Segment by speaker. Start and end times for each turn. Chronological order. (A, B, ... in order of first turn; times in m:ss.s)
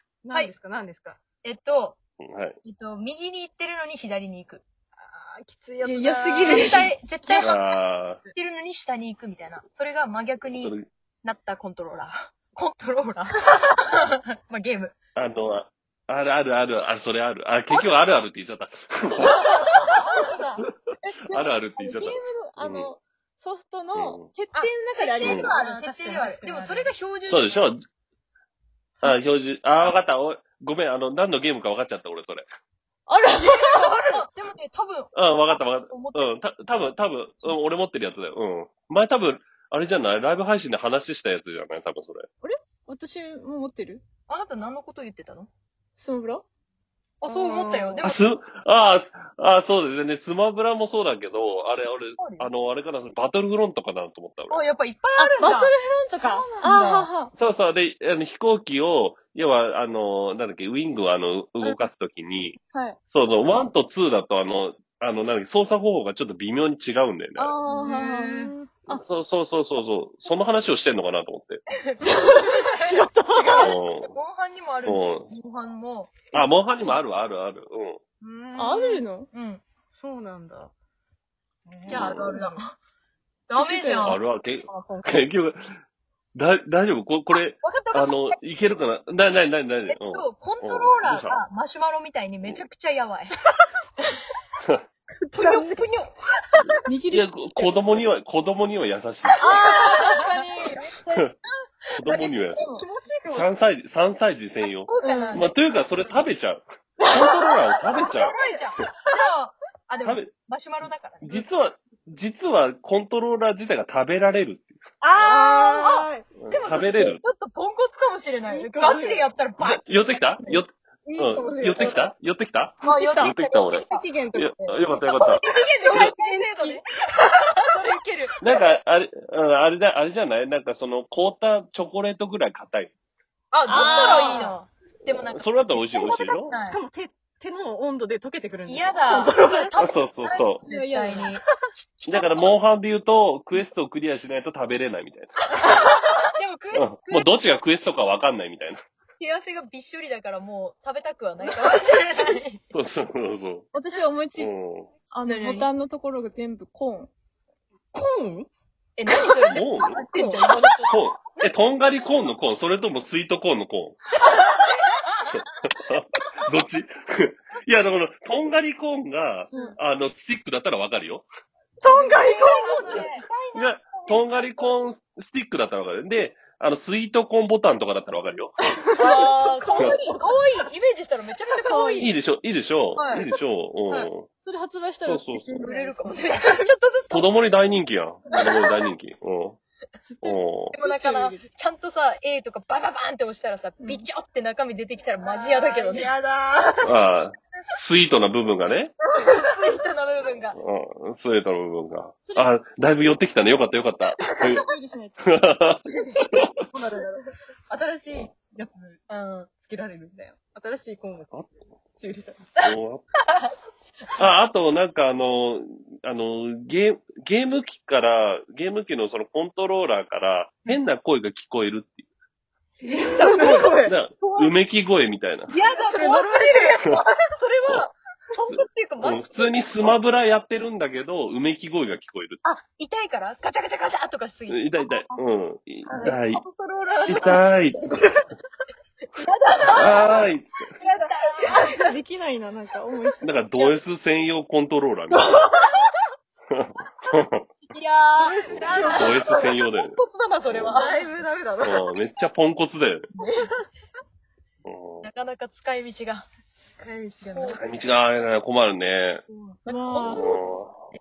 0:00.2-0:01.2 A
0:01.4-0:02.0 B
0:02.2-0:02.6 C
0:02.6-0:04.6 B
0:05.0-0:07.6 A
0:05.8-0:06.9 D
0:06.4-0:07.6 B
0:07.4-0:08.2 C
0:08.3-0:14.9 B
0:10.6-0:10.9 C
0:15.2-0:19.3 C
0:19.2-0:20.6 A
0:21.0-0:25.7 D
0:21.3-0:22.9 C
0:23.9-0:24.3 C
0:24.5-0:27.7 B
0:25.2-0:25.5 C
0:25.4-0:26.9 A
0:27.3-0:27.8 C
0:29.0-0:32.5 C
0:33.1-0:34.1 D
0:33.6-0:36.8 B
0:35.1-0:42.3 C
0:42.4-0:44.0 D
0:44.3-0:45.5 B
0:46.0-0:46.4 D
0:47.2-0:48.2 B
0:47.2-0:48.0 A
0:48.0-0:54.6 C
0:52.2-0:52.5 B
0:54.5-0:55.7 B
0:55.2-0:57.3 D
0:55.4-0:56.5 A
0:56.6-0:57.1 B
0:57.3-1:02.6 C
1:02.7-1:03.0 D
1:03.1-1:07.6 C
1:07.4-1:09.0 D
1:07.7-1:08.5 A
1:08.9-1:11.6 C
1:12.0-1:16.9 B
1:12.0-1:13.7 D
1:13.6-1:14.1 C
1:14.8-1:15.3 C
1:16.3-1:18.0 C
1:18.2-1:19.0 A
1:18.5-1:19.3 D
1:19.3-1:19.6 B
1:19.9-1:20.7 A
1:21.6-1:22.6 A
1:21.9-1:22.4 C
1:21.9-1:22.7 B
1:23.5-1:24.2 B
1:23.5-1:25.3 A
1:24.0-1:25.8 C
1:26.3-1:31.4 C
1:27.6-1:28.4 B
1:29.8-1:33.3 B
1:35.2-1:35.8 A
1:35.3-1:36.1 B
1:36.8-1:37.7 D
1:37.1-1:39.5 C
1:39.4-1:40.8 D
1:39.8-1:40.9 B
1:42.0-1:42.6 C
1:42.2-1:43.5 A
1:42.6-1:42.9 D
1:43.3-1:48.3 C
1:44.6-1:45.5 B
1:45.0-1:45.4 D
1:48.1-1:51.5 B
1:50.0-1:50.3 C
1:51.2-1:54.7 C
1:55.0-2:00.6 B
1:55.2-1:56.3 A
1:55.2-1:55.7 D
1:56.4-1:57.2 C
1:58.5-1:59.2 A
1:59.6-2:05.4 C
2:01.0-2:02.0 A
2:02.8-2:04.1 B
2:02.9-2:04.8 A
2:05.0-2:08.3 B
2:05.8-2:06.1 A
2:07.7-2:08.3 A
2:08.4-2:12.9 C
2:13.5-2:14.5 A
2:13.6-2:16.8 B
2:13.7-2:14.5 D
2:15.1-2:16.5 C
2:16.5-2:19.7 A
2:18.6-2:21.4 B
2:19.8-2:20.6 C
2:20.6-2:21.4 D
2:22.0-2:22.4 B
2:22.1-2:25.5 C
2:26.3-2:27.4 B
2:26.7-2:28.8 C
2:29.2-2:32.6 B
2:32.7-2:33.7 C
2:33.7-2:34.5 D
2:34.4-2:34.9 C
2:35.1-2:37.1 D
2:35.2-2:35.7 B
2:37.9-2:38.5 A
2:39.0-2:41.5 B
2:39.2-2:40.8 A
2:39.5-2:40.0 C
2:40.9-2:44.0 C
2:45.3-2:51.3 C
2:49.5-2:49.8 D
2:51.8-2:53.4 D
2:51.8-2:53.3 B
2:53.5-2:58.6 C
2:53.9-2:54.6 B
2:58.8-3:00.3 D
2:59.0-3:02.2 B
3:01.5-3:02.1 D
3:02.0-3:04.3 C
3:03.0-3:03.3 B
3:04.4-3:06.6 D
3:05.0-3:05.6 C
3:05.6-3:07.3 B
3:07.1-3:09.6 C
3:10.1-3:11.5 D
3:10.2-3:10.8 C
3:10.7-3:16.1 B
3:13.8-3:14.0 D
3:15.2-3:17.0 A
3:16.8-3:18.9 C
3:19.2-3:20.6 B
3:20.5-3:24.6 C
3:22.2-3:22.5 D
3:24.5-3:25.4 D
3:25.3-3:26.5 C
3:26.7-3:29.0 A
3:29.1-3:29.5 B
3:29.6-3:31.4 A
3:32.0-3:32.5 A
3:32.6-3:33.1 C
3:34.2-3:42.0 C
3:42.8-3:44.5 A
3:43.8-3:45.5 C
3:45.5-3:50.0 B
3:45.6-3:46.8 A
3:48.4-3:52.4 C
3:52.4-3:55.0 B
3:54.5-3:56.4 C
3:55.9-3:57.4 A
3:57.0-3:57.9 C
3:57.1-3:57.4 B
3:59.5-4:00.1 B
3:59.7-4:00.7 C
4:00.8-4:01.8 B
4:01.5-4:03.3 D
4:03.2-4:05.5 C
4:06.5-4:07.4 C
4:07.7-4:09.2 B
4:08.2-4:12.1 A
4:08.5-4:10.0 C
4:10.5-4:10.8 C
4:10.7-4:10.9 B
4:11.6-4:13.0 C
4:13.2-4:13.5 A
4:14.6-4:15.1 C
4:15.0-4:16.3 B
4:16.8-4:17.6 A
4:17.2-4:17.6 B
4:17.5-4:19.2 C
4:19.3-4:20.2 A
4:19.7-4:20.3 D
4:20.1-4:20.9 C